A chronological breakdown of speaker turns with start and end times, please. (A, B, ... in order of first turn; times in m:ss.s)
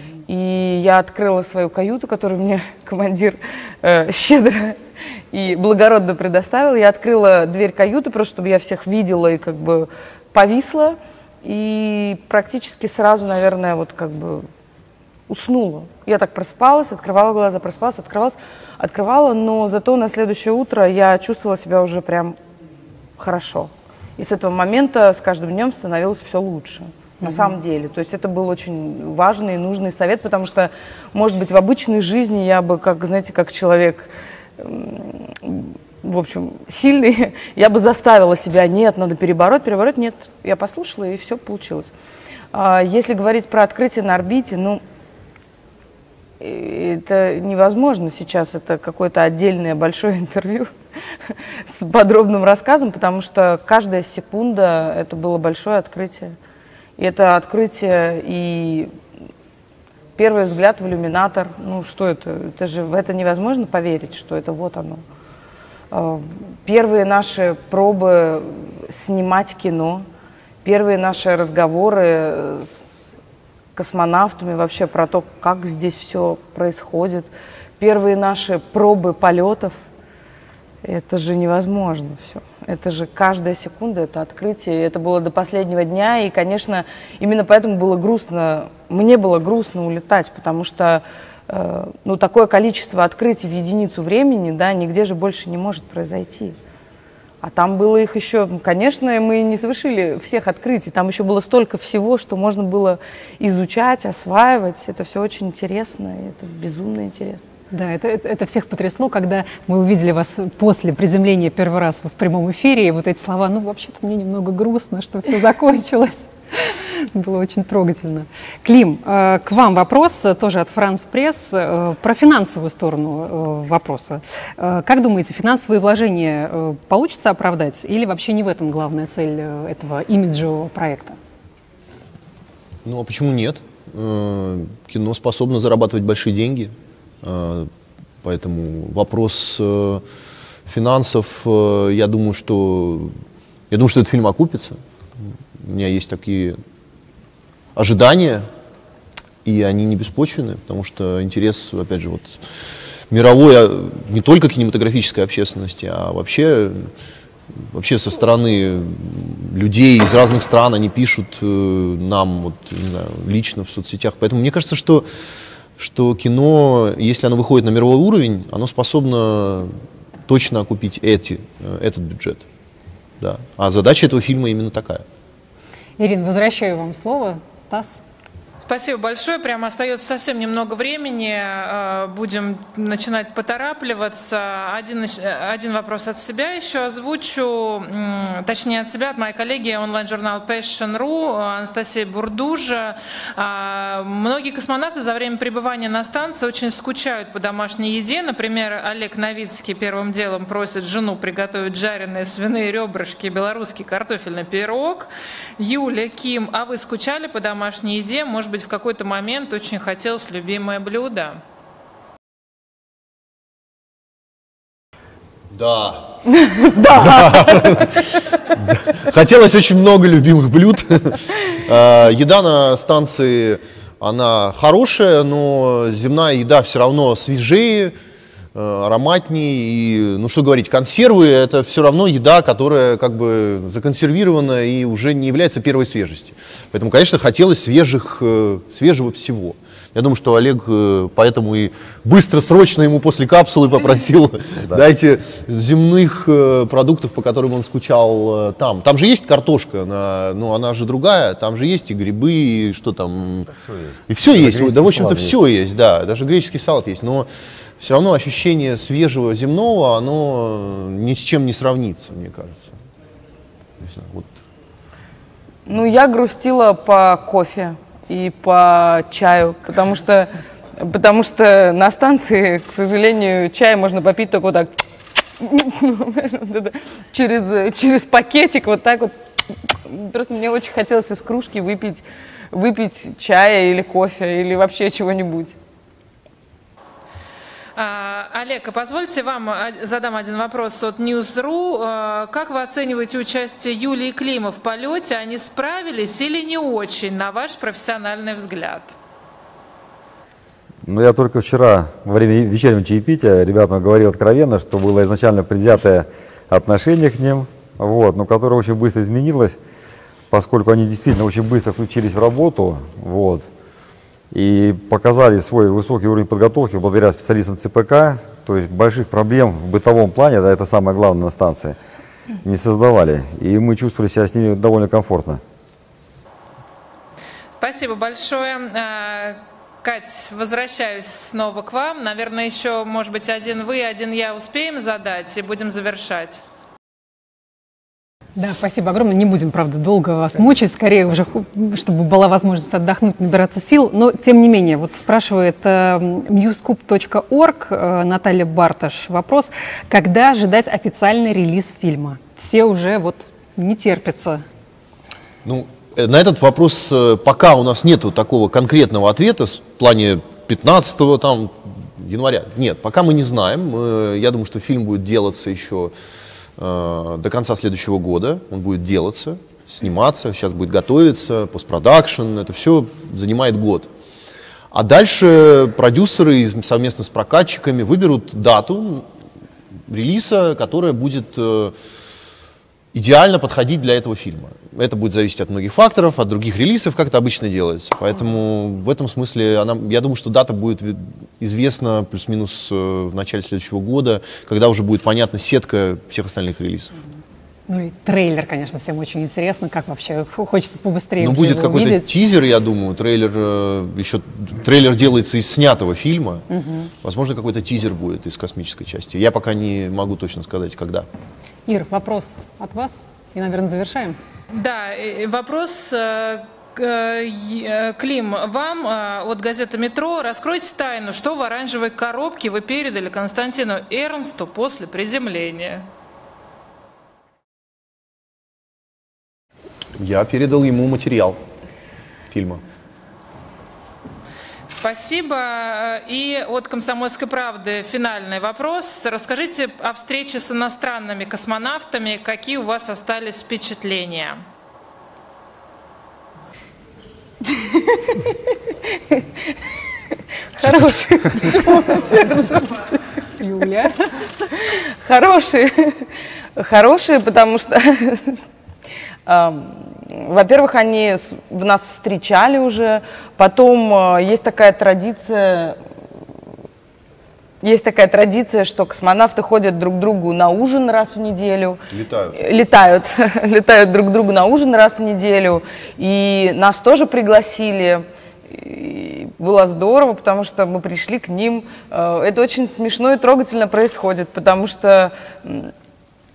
0:00.3-0:04.8 A
0:05.3-0:14.5 A
0:15.3-0:22.4 A
0:23.2-0:41.9 A
0:27.2-0:27.5 B
0:42.5-0:44.8 A
0:46.4-0:50.7 A
0:51.3-0:56.4 A
0:57.0-0:58.9 A
1:00.2-1:05.0 A
1:05.9-1:10.0 A
1:10.6-1:13.0 A
1:13.8-1:19.8 A
1:20.8-1:36.6 A
1:37.4-1:47.5 A
1:47.7-2:11.2 B
2:12.8-2:17.7 C
2:18.2-2:20.0 C
2:20.7-2:23.1 C
2:23.7-2:24.8 C
2:25.6-2:26.6 C
2:27.8-2:28.4 C
2:29.4-2:32.4 C
2:33.1-2:36.9 C
2:37.7-2:45.1 C
2:45.8-2:49.7 C
2:50.3-2:52.4 C
2:53.2-2:55.0 C
2:56.0-2:58.0 B
2:58.6-3:31.4 D
3:35.5-3:48.0 C
3:36.8-3:37.1 A
3:48.6-4:13.5 C
4:13.5-4:15.4 E
4:14.1-4:17.3 C
4:17.8-4:22.7 C
4:23.8-4:24.3 C
4:25.7-4:34.7 A
4:35.4-4:39.1 A
4:39.7-4:45.6 A
4:47.8-4:59.0 D
5:00.8-5:09.6 E
5:10.3-5:13.5 E
5:14.3-5:21.8 E
5:22.4-5:25.4 E
5:27.6-5:36.4 D
5:38.4-5:54.4 B
5:55.4-6:05.9 C
6:06.6-6:13.9 C
6:14.7-6:19.1 C
6:19.9-6:21.7 C
6:22.9-6:37.0 C
6:37.7-6:42.1 B
6:41.2-6:51.1 C
6:46.5-6:46.9 B
6:51.7-6:54.2 B
6:54.5-7:05.9 D
7:10.0-7:11.4 C
7:12.3-7:12.6 C
7:14.7-7:24.4 D
7:27.4-7:29.6 A
7:30.6-7:33.0 A
7:33.4-7:34.2 B
7:34.5-7:38.4 A
7:39.3-7:45.8 A
7:47.6-7:51.8 A
7:51.9-7:52.4 C
7:52.3-8:05.7 A